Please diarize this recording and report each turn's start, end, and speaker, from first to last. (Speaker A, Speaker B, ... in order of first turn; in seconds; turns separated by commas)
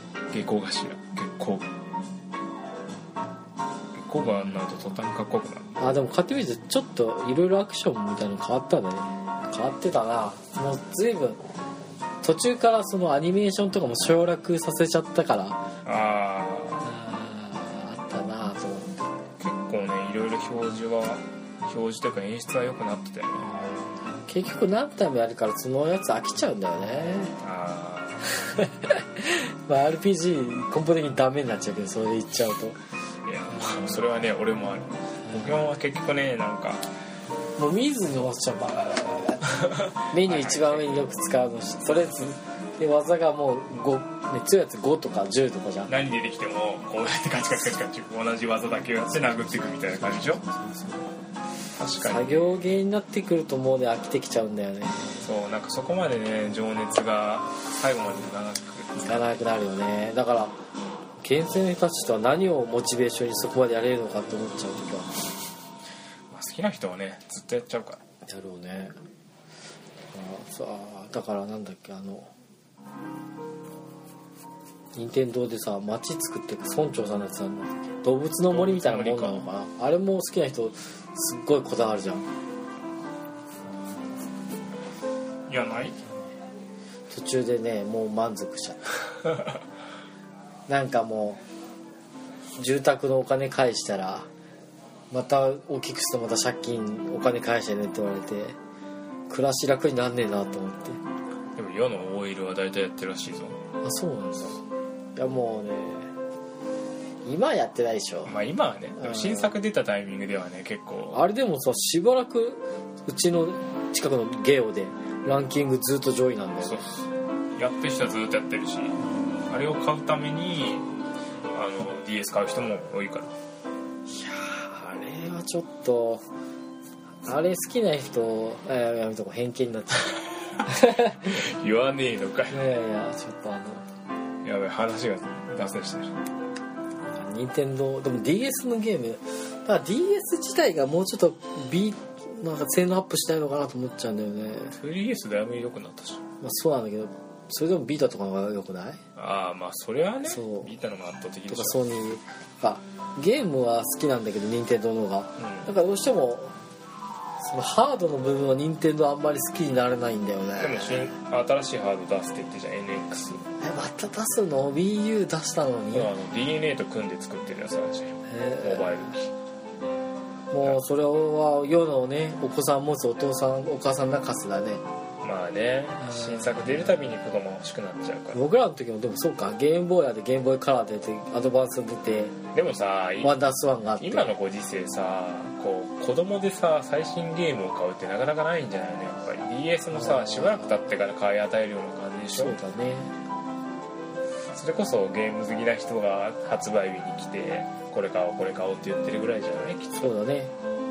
Speaker A: 0.3-1.7, Speaker A: 3.9-5.8, Speaker B: 5.8-11.4, Speaker B: 12.2-15.6, Speaker A: 15.8-16.8, Speaker B: 16.8-19.1, Speaker A: 19.4-23.6, Speaker B: 23.4-27.4, Speaker A: 27.4-28.6, Speaker B: 28.4-32.8, Speaker A: 33.2-36.9, Speaker B: 37.6-45.9, Speaker A: 39.6-41.1, Speaker A: 45.9-50.4, Speaker B: 49.2-51.1, Speaker A: 51.8-52.6, Speaker B: 52.0-55.1, Speaker A: 55.2-59.3, Speaker B: 59.0-60.5, Speaker B: 61.2-65.2, Speaker A: 66.3-68.0, Speaker B: 68.2-68.9, Speaker B: 70.1-72.3, Speaker B: 74.9-82.2, Speaker A: 78.5-79.5, Speaker A: 85.5-86.0, Speaker B: 87.1-88.9, Speaker B: 90.7-91.4, Speaker B: 92.5-94.3, Speaker B: 95.1-98.6, Speaker B: 99.3-101.0, Speaker A: 101.5-103.6, Speaker B: 103.8-104.6, Speaker B: 105.2-106.1, Speaker B: 107.2-108.4, Speaker A: 108.2-111.3, Speaker B: 109.0-109.5, Speaker B: 111.1-116.8, Speaker A: 116.6-120.9, Speaker A: 121.5-123.3, Speaker B: 124.1-126.2, Speaker B: 127.2-131.4, Speaker A: 130.7-132.6, Speaker B: 132.5-133.8, Speaker A: 134.4-136.2, Speaker B: 137.1-144.8, Speaker A: 144.7-146.2, Speaker B: 146.4-149.0, Speaker A: 149.2-151.9, Speaker B: 150.3-150.7, Speaker B: 151.5-156.6, Speaker A: 155.4-155.7, Speaker B: 157.4-161.1, Speaker A: 160.6-163.4, Speaker B: 163.6-166.1, Speaker A: 165.9-169.3, Speaker B: 168.2-169.1, Speaker B: 170.5-174.8, Speaker A: 175.2-178.4, Speaker B: 176.0-177.0, Speaker B: 178.3-182.4, Speaker A: 182.5-183.4, Speaker B: 183.2-184.3, Speaker A: 184.0-192.6, Speaker B: 189.9-190.8, Speaker B: 192.3-193.1, Speaker A: 194.5-200.1, Speaker B: 199.9-200.5